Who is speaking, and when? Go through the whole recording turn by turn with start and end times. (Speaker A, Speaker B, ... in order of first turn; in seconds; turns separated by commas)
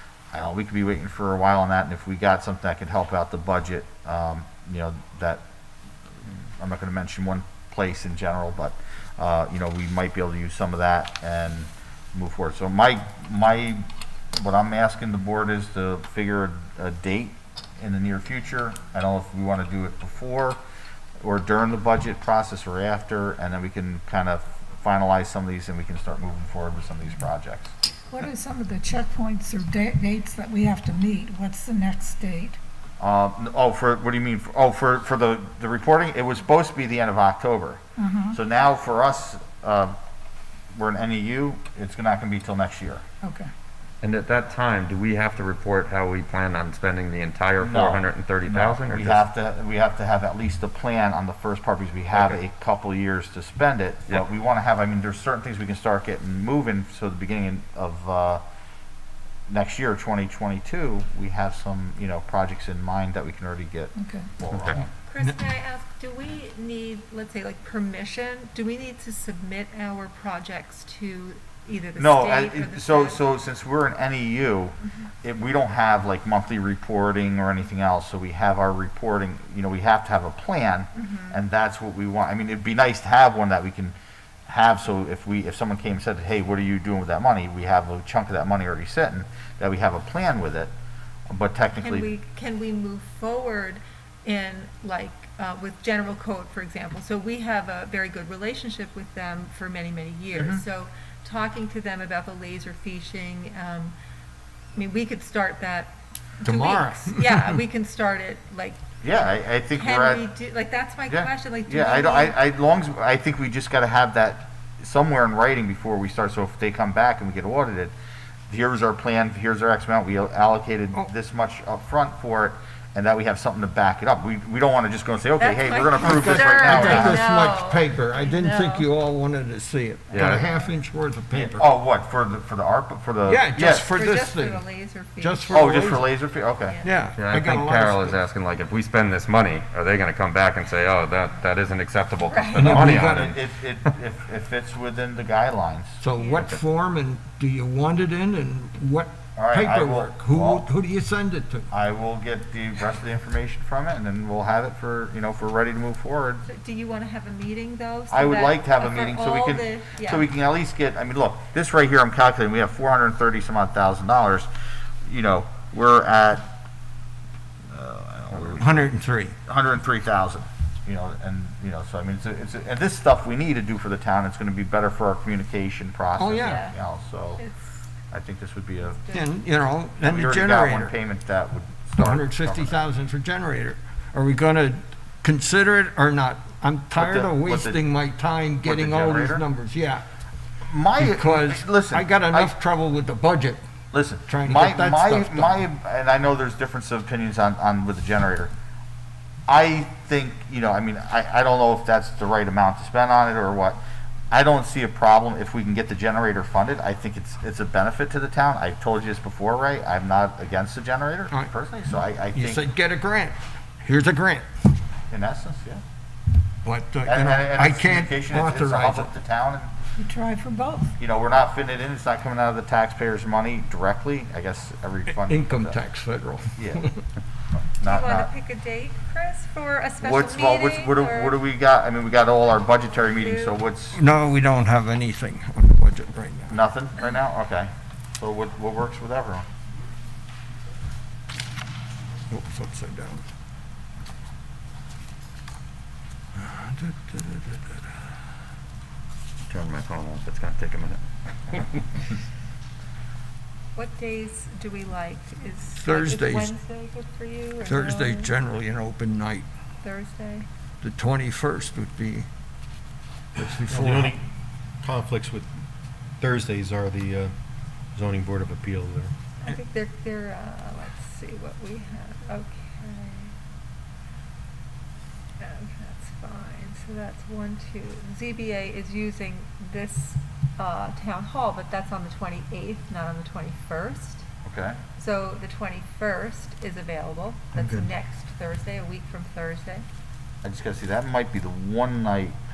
Speaker A: 0.3-5.4, Speaker A: 6.6-20.6, Speaker A: 21.2-27.7, Speaker B: 28.1-32.6, Speaker A: 33.0-40.0, Speaker B: 38.0-38.4, Speaker A: 40.8-43.0, Speaker B: 43.2-43.5, Speaker C: 44.0-49.2, Speaker A: 47.6-58.4, Speaker A: 59.5-64.9, Speaker B: 64.0-64.3, Speaker C: 64.5-64.8, Speaker D: 65.1-73.2, Speaker A: 72.0-84.0, Speaker D: 81.0-81.4, Speaker A: 84.5-90.7, Speaker A: 91.3-92.1, Speaker D: 91.8-103.9, Speaker A: 100.3-100.6, Speaker D: 104.8-108.8, Speaker E: 106.5-107.6, Speaker A: 109.0-110.3, Speaker D: 109.6-112.4, Speaker A: 111.1-117.9, Speaker A: 118.5-127.2, Speaker D: 125.4-128.9, Speaker E: 126.0-131.7, Speaker C: 130.1-130.5, Speaker A: 131.3-133.9, Speaker E: 133.3-134.6, Speaker D: 133.9-135.7, Speaker E: 135.2-136.1, Speaker A: 135.5-136.8, Speaker D: 136.6-137.0, Speaker E: 136.8-138.2, Speaker C: 137.2-143.4, Speaker D: 142.2-142.8, Speaker E: 142.6-143.4, Speaker A: 142.6-146.0, Speaker E: 146.0-151.7, Speaker D: 146.2-146.5, Speaker A: 149.4-150.7, Speaker A: 151.7-156.4, Speaker D: 156.4-160.3, Speaker A: 158.1-164.5, Speaker A: 165.1-166.5, Speaker A: 167.7-168.9, Speaker C: 168.3-168.6, Speaker E: 168.6-169.3, Speaker A: 169.5-177.4, Speaker E: 176.2-176.7, Speaker D: 176.4-176.8, Speaker D: 177.4-177.8, Speaker A: 178.1-179.0, Speaker D: 178.8-179.3, Speaker E: 179.1-180.9, Speaker A: 180.0-182.8, Speaker E: 181.9-190.1, Speaker A: 186.9-187.8, Speaker A: 188.6-189.4, Speaker A: 190.6-192.5, Speaker E: 191.0-193.6, Speaker A: 193.9-198.5, Speaker E: 194.3-195.6, Speaker A: 199.5-203.8, Speaker A: 204.3-212.7, Speaker E: 212.3-214.5, Speaker A: 215.1-215.8, Speaker E: 216.6-219.1, Speaker A: 217.1-219.7, Speaker B: 220.0-220.9, Speaker A: 221.0-225.8, Speaker E: 225.2-227.0, Speaker A: 226.6-226.9, Speaker A: 227.6-228.3, Speaker D: 227.8-231.4, Speaker A: 230.0-234.0, Speaker D: 233.2-233.6, Speaker E: 233.9-236.6, Speaker A: 236.5-239.5, Speaker E: 242.3-243.2, Speaker E: 246.4-247.9, Speaker C: 249.5-251.9, Speaker D: 253.8-258.3, Speaker E: 255.8-256.5, Speaker E: 257.6-259.5, Speaker D: 259.8-260.5, Speaker E: 260.8-262.3, Speaker E: 263.4-264.2, Speaker F: 263.7-264.2, Speaker F: 264.8-265.5, Speaker F: 266.2-267.3, Speaker F: 267.9-269.1, Speaker D: 269.4-273.4, Speaker D: 275.4-284.2, Speaker A: 284.4-284.8, Speaker D: 285.0-289.8, Speaker E: 287.6-287.9, Speaker A: 290.4-292.4